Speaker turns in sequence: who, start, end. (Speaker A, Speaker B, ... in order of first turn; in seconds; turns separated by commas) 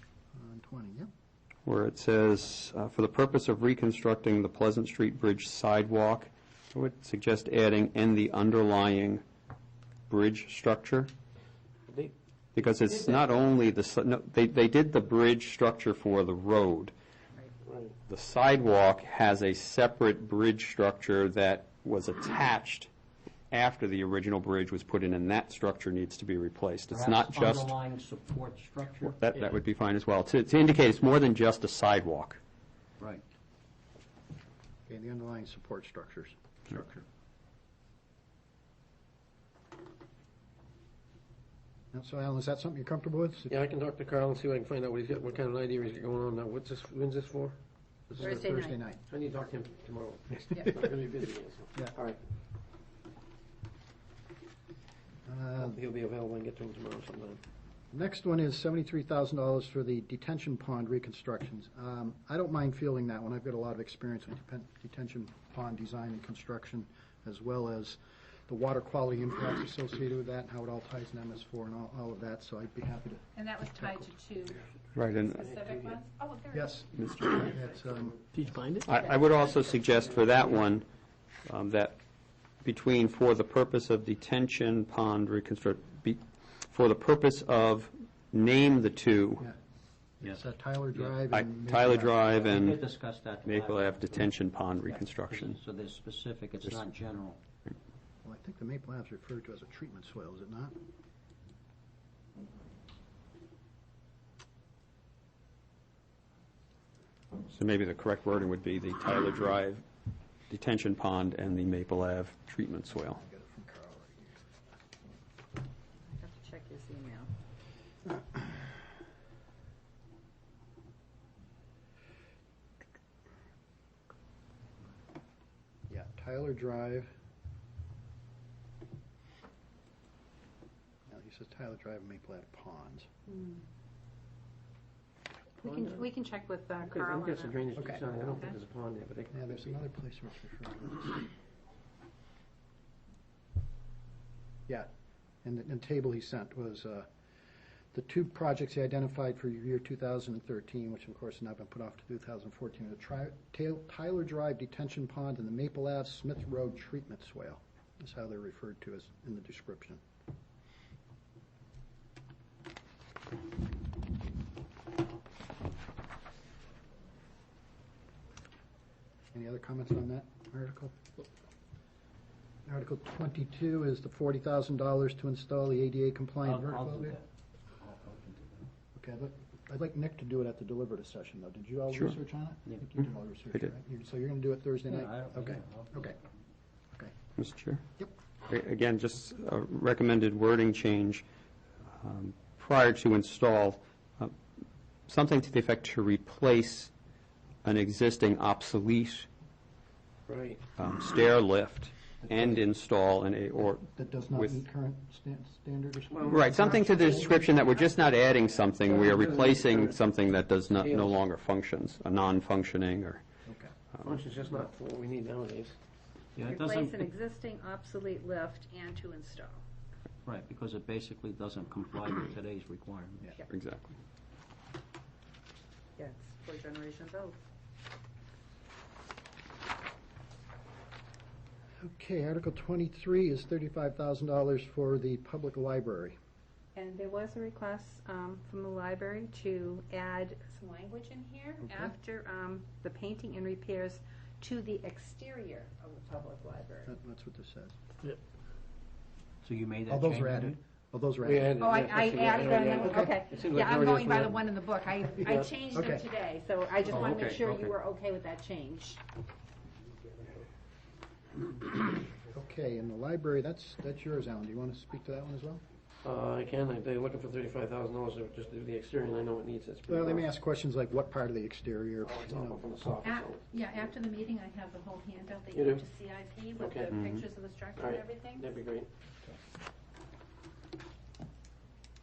Speaker A: 0.3-1.1, Speaker B: 1.6-9.2, Speaker B: 10.1-11.1, Speaker C: 11.9-12.1, Speaker B: 12.5-16.9, Speaker C: 17.6-17.9, Speaker B: 18.1-22.9, Speaker B: 23.5-27.7, Speaker D: 26.9-29.5, Speaker B: 29.1-32.4, Speaker A: 34.9-37.0, Speaker A: 41.9-43.6, Speaker C: 43.5-47.6, Speaker A: 48.1-49.0, Speaker E: 48.2-48.8, Speaker C: 49.1-52.2, Speaker A: 55.2-55.8, Speaker C: 55.6-57.4, Speaker A: 57.9-74.1, Speaker E: 73.3-77.5, Speaker B: 74.9-75.4, Speaker C: 75.4-76.0, Speaker A: 76.5-78.4, Speaker B: 77.0-77.4, Speaker B: 78.8-80.8, Speaker E: 78.9-79.8, Speaker B: 81.5-82.0, Speaker B: 82.6-89.4, Speaker A: 90.2-92.3, Speaker B: 91.3-92.8, Speaker D: 92.3-94.2, Speaker B: 93.4-95.6, Speaker D: 94.9-97.4, Speaker A: 98.2-100.7, Speaker B: 107.5-109.8, Speaker B: 110.5-113.2, Speaker A: 112.9-114.5, Speaker E: 116.1-117.3, Speaker A: 125.9-127.1, Speaker A: 131.1-133.1, Speaker E: 133.3-133.6, Speaker E: 135.6-137.6, Speaker C: 135.6-136.1, Speaker C: 136.8-139.8, Speaker A: 137.8-138.0, Speaker A: 139.3-141.3, Speaker A: 145.4-147.1, Speaker A: 147.9-160.0, Speaker A: 169.3-170.9, Speaker A: 172.7-177.2, Speaker D: 176.4-177.3, Speaker D: 177.8-178.7, Speaker A: 178.9-186.2, Speaker D: 184.9-186.1, Speaker B: 187.4-187.8, Speaker B: 188.5-191.2, Speaker B: 192.0-194.3, Speaker B: 195.1-196.9, Speaker B: 197.6-199.3, Speaker C: 200.3-200.6, Speaker B: 200.8-204.6, Speaker A: 202.2-202.6, Speaker A: 203.8-207.3, Speaker C: 206.1-207.0, Speaker B: 206.3-213.2, Speaker E: 207.0-208.0, Speaker C: 208.8-209.9, Speaker C: 210.7-211.2, Speaker A: 213.4-213.7, Speaker C: 214.0-215.7, Speaker D: 216.3-217.0, Speaker E: 216.4-219.6, Speaker D: 220.2-223.3, Speaker B: 223.5-223.9, Speaker E: 226.0-227.4, Speaker A: 231.8-236.2, Speaker E: 236.7-246.9, Speaker A: 241.6-241.9, Speaker A: 246.8-247.7, Speaker D: 249.4-250.6, Speaker A: 249.9-251.5, Speaker C: 251.2-254.4, Speaker E: 251.6-259.0, Speaker A: 252.8-253.1, Speaker C: 255.1-255.5, Speaker A: 255.2-256.0, Speaker D: 256.8-257.8, Speaker A: 262.3-265.6, Speaker C: 266.0-270.3, Speaker A: 269.9-272.7, Speaker C: 272.0-273.9, Speaker E: 273.0-278.5, Speaker C: 275.5-275.8, Speaker C: 276.6-278.9